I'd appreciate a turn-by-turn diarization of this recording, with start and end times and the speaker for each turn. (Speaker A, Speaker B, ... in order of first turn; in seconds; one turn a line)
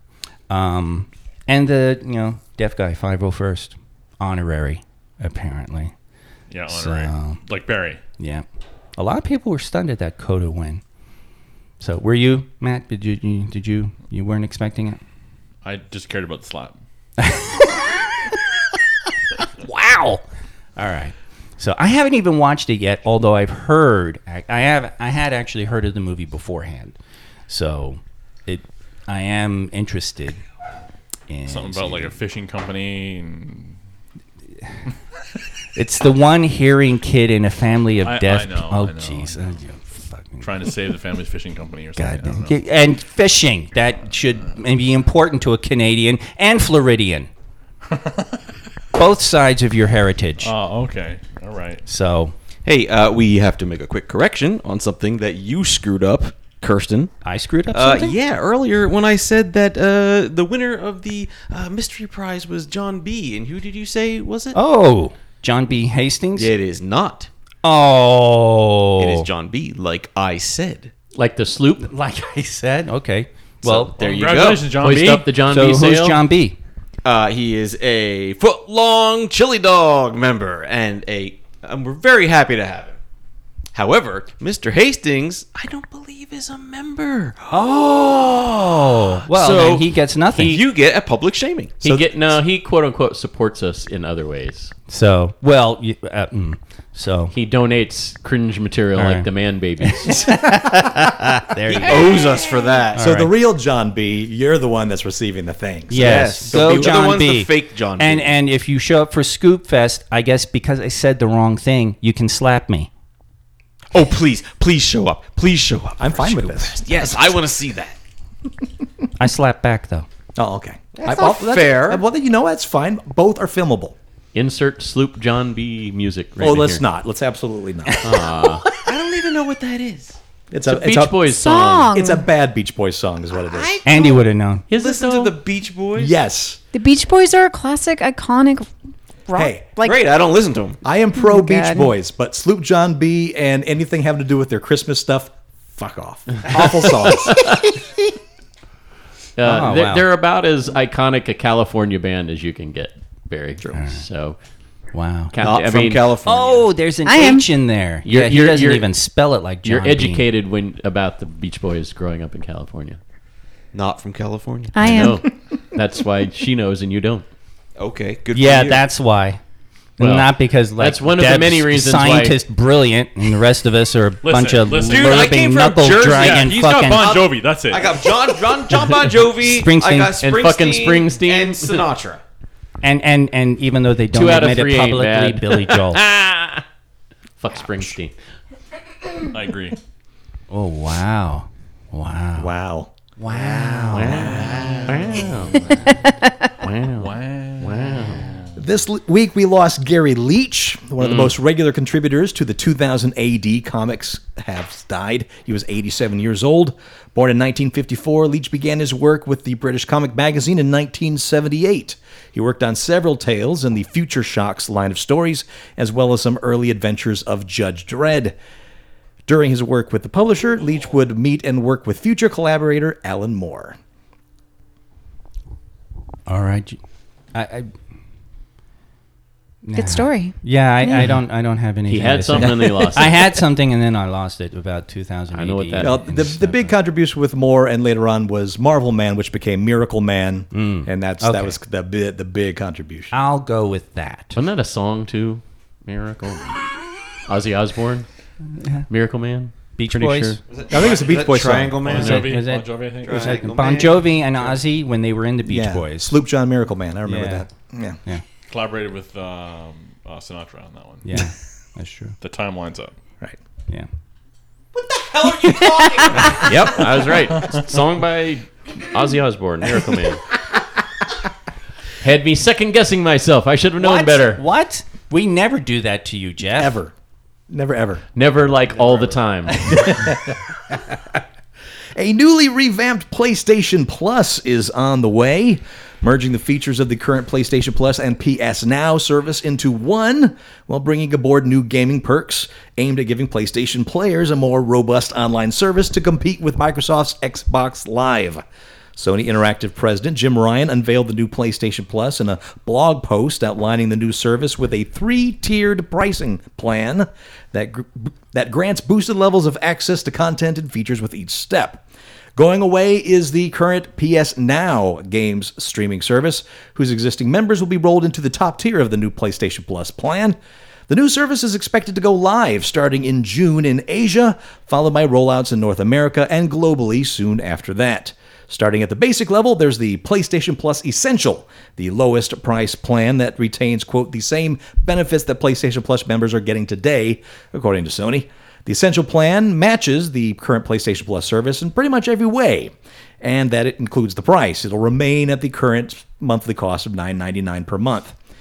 Speaker A: 0.5-5.9
Speaker B: 6.5-8.0
Speaker A: 6.7-7.4
Speaker A: 8.2-8.4
Speaker A: 9.0-10.8
Speaker A: 11.8-15.0
Speaker B: 15.6-16.8
Speaker A: 17.2-18.4
Speaker A: 19.4-20.2
Speaker A: 20.8-26.9
Speaker A: 27.5-30.4
Speaker A: 31.3-32.1
Speaker B: 31.4-33.8
Speaker A: 35.8-40.6
Speaker B: 38.0-39.5
Speaker B: 40.4-42.6
Speaker A: 42.0-47.3
Speaker B: 47.9-48.3
Speaker A: 48.9-50.5
Speaker B: 50.4-51.8
Speaker A: 51.9-52.3
Speaker C: 52.6-57.1
Speaker A: 57.2-58.2
Speaker C: 57.7-64.6
Speaker A: 64.5-66.5
Speaker C: 66.3-67.3
Speaker A: 67.6-69.3
Speaker C: 69.0-70.9
Speaker D: 71.1-71.9
Speaker A: 71.8-73.9
Speaker C: 73.6-74.7
Speaker B: 74.0-75.3
Speaker D: 74.8-76.2
Speaker A: 75.5-76.6
Speaker C: 77.0-83.0
Speaker C: 83.7-87.6
Speaker A: 87.5-90.6
Speaker C: 89.3-91.8
Speaker D: 91.8-94.7
Speaker E: 91.8-92.1
Speaker A: 94.9-97.3
Speaker D: 97.3-100.2
Speaker A: 99.0-99.3
Speaker A: 99.8-102.2
Speaker C: 101.7-103.0
Speaker A: 102.9-103.3
Speaker E: 102.9-107.0
Speaker A: 105.9-112.9
Speaker C: 106.0-108.3
Speaker C: 113.9-118.0
Speaker E: 116.0-117.4
Speaker A: 119.2-120.1
Speaker E: 120.3-124.0
Speaker C: 121.0-122.0
Speaker D: 124.3-126.8
Speaker E: 126.4-128.2
Speaker D: 128.0-128.7
Speaker C: 128.8-130.2
Speaker E: 130.5-133.8
Speaker D: 130.7-131.9
Speaker F: 131.3-132.2
Speaker C: 133.5-134.1
Speaker A: 133.8-134.6
Speaker D: 134.7-135.4
Speaker C: 134.7-136.1
Speaker E: 135.9-136.6
Speaker F: 136.7-138.7
Speaker F: 139.3-140.0
Speaker E: 139.3-139.7
Speaker C: 139.8-140.8
Speaker E: 140.8-147.6
Speaker F: 141.2-141.9
Speaker D: 146.9-147.7
Speaker D: 149.4-154.4
Speaker A: 149.4-150.0
Speaker A: 153.7-154.0
Speaker A: 154.9-155.3
Speaker D: 155.3-156.0
Speaker C: 155.4-156.7
Speaker A: 156.2-160.2
Speaker F: 157.0-157.5
Speaker D: 158.0-158.9
Speaker D: 159.6-163.0
Speaker C: 163.7-165.0
Speaker F: 164.7-165.3
Speaker D: 164.8-167.2
Speaker C: 167.8-168.8
Speaker A: 168.3-169.4
Speaker A: 170.0-177.1
Speaker D: 170.0-172.4
Speaker B: 174.2-175.4
Speaker C: 174.8-182.2
Speaker B: 176.0-178.5
Speaker A: 179.3-180.1
Speaker D: 180.2-181.9
Speaker A: 182.8-186.0
Speaker D: 184.1-186.6
Speaker D: 187.4-188.1
Speaker B: 189.3-189.8
Speaker A: 190.5-192.5
Speaker E: 192.4-192.9
Speaker A: 193.2-194.9
Speaker C: 193.3-195.3
Speaker D: 193.9-195.8
Speaker D: 196.6-198.3
Speaker B: 196.9-198.3
Speaker E: 198.6-218.4
Speaker D: 201.0-201.3
Speaker E: 219.2-223.8
Speaker A: 226.3-226.8
Speaker A: 227.3-227.7
Speaker A: 229.6-236.7
Speaker F: 229.8-230.3
Speaker D: 231.9-233.4
Speaker E: 232.3-233.1
Speaker D: 235.3-236.0
Speaker E: 235.8-243.1
Speaker A: 240.5-241.6
Speaker A: 243.1-244.3
Speaker D: 244.3-246.6
Speaker D: 247.3-248.1
Speaker A: 248.6-248.8
Speaker D: 248.9-250.4
Speaker A: 249.8-250.4
Speaker C: 250.5-252.4
Speaker E: 250.7-252.0
Speaker B: 251.8-253.9
Speaker A: 251.9-256.2
Speaker C: 253.0-254.1
Speaker E: 255.4-258.0
Speaker A: 257.1-257.4
Speaker B: 258.5-261.3
Speaker A: 261.0-262.1
Speaker B: 262.2-262.9
Speaker C: 264.8-267.2
Speaker D: 266.3-270.2
Speaker D: 272.0-274.4
Speaker A: 273.8-276.8
Speaker E: 276.6-276.9
Speaker E: 277.5-278.0
Speaker D: 278.1-279.9
Speaker E: 279.7-281.2
Speaker E: 281.9-298.4
Speaker E: 298.9-311.8
Speaker E: 312.4-320.4
Speaker E: 320.9-348.1